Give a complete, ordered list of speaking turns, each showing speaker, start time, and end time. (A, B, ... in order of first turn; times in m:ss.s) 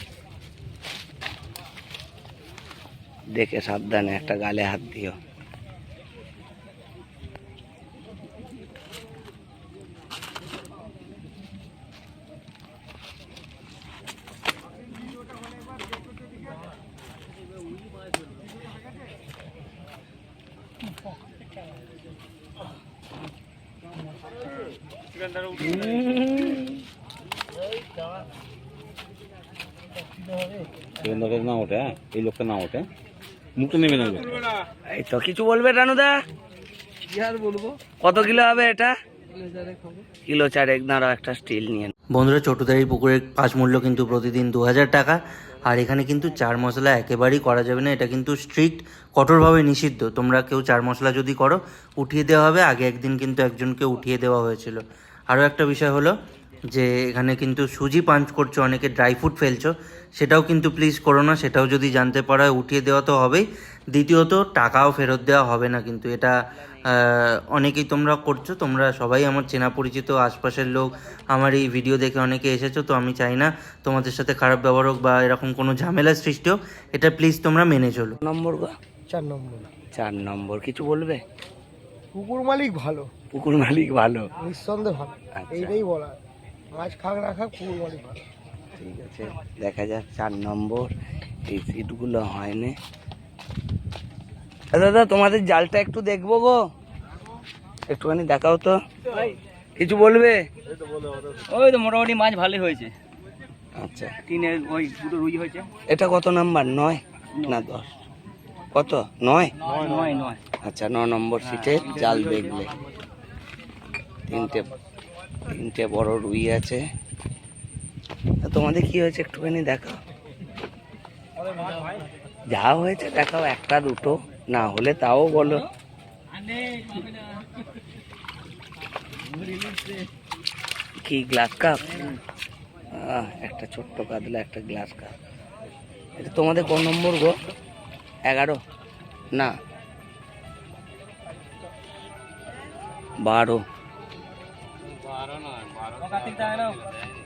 0:03.4-0:05.2 A
0:25.6-0:26.7 A
0:31.0-0:32.9 B
0:33.6-0:34.4 B
0:34.9-0:36.2 A
0:37.1-0:37.7 C
0:38.0-0:39.0 A
0:39.4-0:40.0 C
0:40.2-0:41.9 A
0:42.2-0:56.1 D
0:56.7-1:06.3 D
1:06.9-1:18.2 D
1:18.2-1:18.8 A
1:19.1-1:19.7 E
1:20.0-1:21.2 A
1:22.1-1:23.1 E
1:23.3-1:24.3 A
1:24.4-1:26.2 E
1:25.4-1:25.8 A
1:26.7-1:28.2 E
1:28.8-1:30.9 A
1:31.5-1:32.8 A
1:34.7-1:36.6 A
1:37.9-1:38.8 A
1:39.8-1:40.4 A
1:41.7-1:42.9 F
1:43.8-1:44.2 A
1:44.5-1:45.6 F
1:45.9-1:48.0 A
1:48.7-1:49.6 A
1:49.6-1:50.1 B
1:49.8-1:50.3 F
1:50.6-1:52.8 A
1:54.3-1:54.7 A
1:55.5-1:56.8 A
1:58.4-2:00.0 A
2:01.4-2:02.1 C
2:02.5-2:05.7 A
2:11.0-2:12.0 A
2:12.9-2:15.1 A
2:16.2-2:17.4 A
2:18.3-2:18.6 A
2:23.2-2:23.6 A
2:25.4-2:26.7 B
2:26.1-2:26.8 C